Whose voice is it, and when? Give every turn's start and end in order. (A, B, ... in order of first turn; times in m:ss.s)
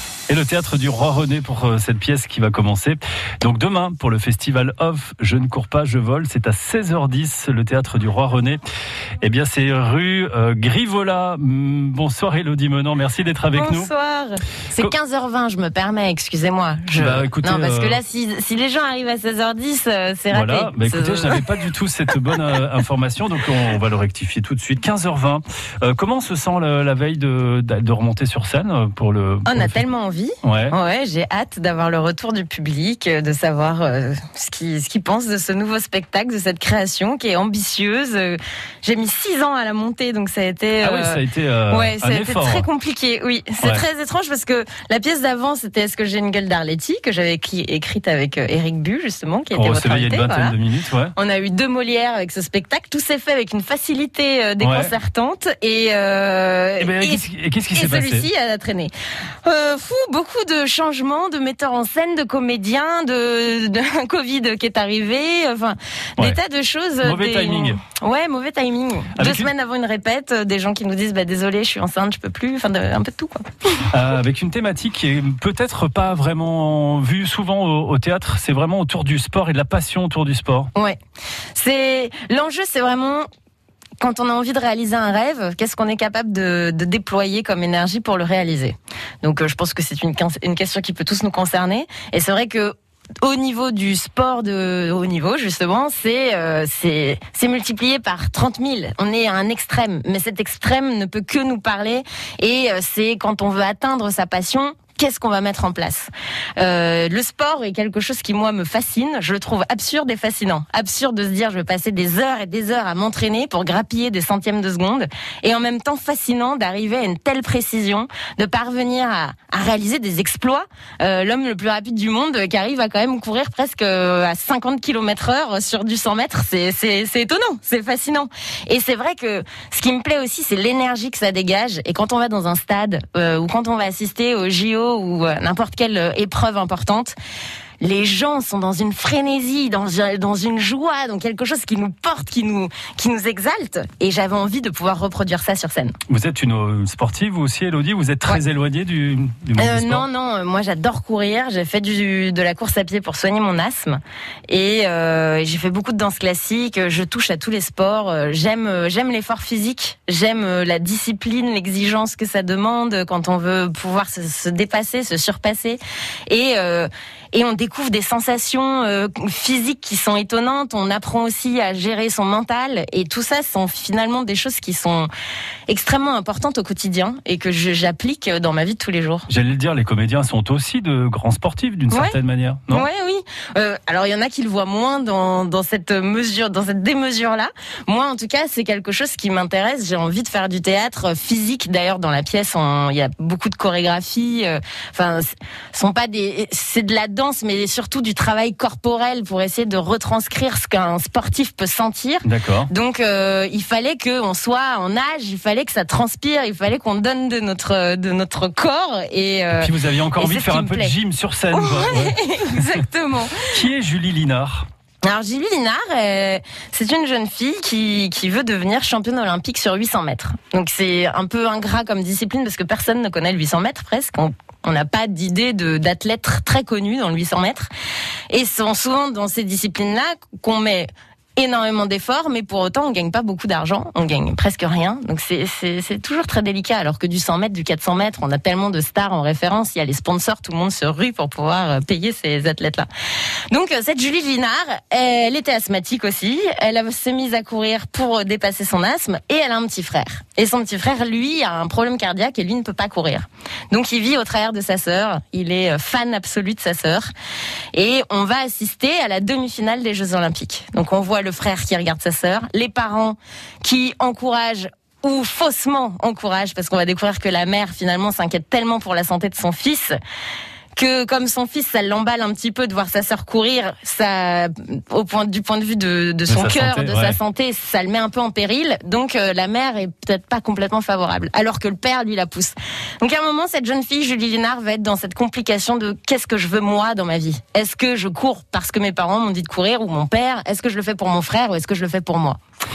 0:00.3-0:08.6 A
0:09.2-0:13.9 A
0:13.5-0:21.4 B
0:17.0-0:18.0 A
0:20.3-0:29.8 A
0:29.5-0:50.6 B
0:30.4-0:30.7 A
0:40.8-0:42.7 A
0:49.5-0:51.1 A
0:51.2-0:58.9 B
0:54.6-0:54.9 A
0:56.8-0:58.3 A
0:59.4-1:13.8 B
1:07.0-1:07.8 A
1:09.2-1:09.5 A
1:13.9-1:20.7 A
1:21.6-1:23.3 B
1:24.0-2:17.2 B
2:17.8-2:26.0 B
2:26.1-2:30.1 A
2:29.6-2:55.1 B
2:55.7-2:59.3 B
2:59.3-3:02.9 A
3:01.9-3:02.2 B
3:02.7-3:31.0 B
3:22.2-3:22.7 A
3:29.6-3:32.8 A
3:31.5-3:33.5 B
3:33.4-3:34.6 A
3:35.0-3:47.7 B
3:48.3-4:02.9 B
4:03.5-4:17.1 B
4:17.7-4:30.0 B
4:30.8-4:52.4 B
4:36.3-4:37.2 A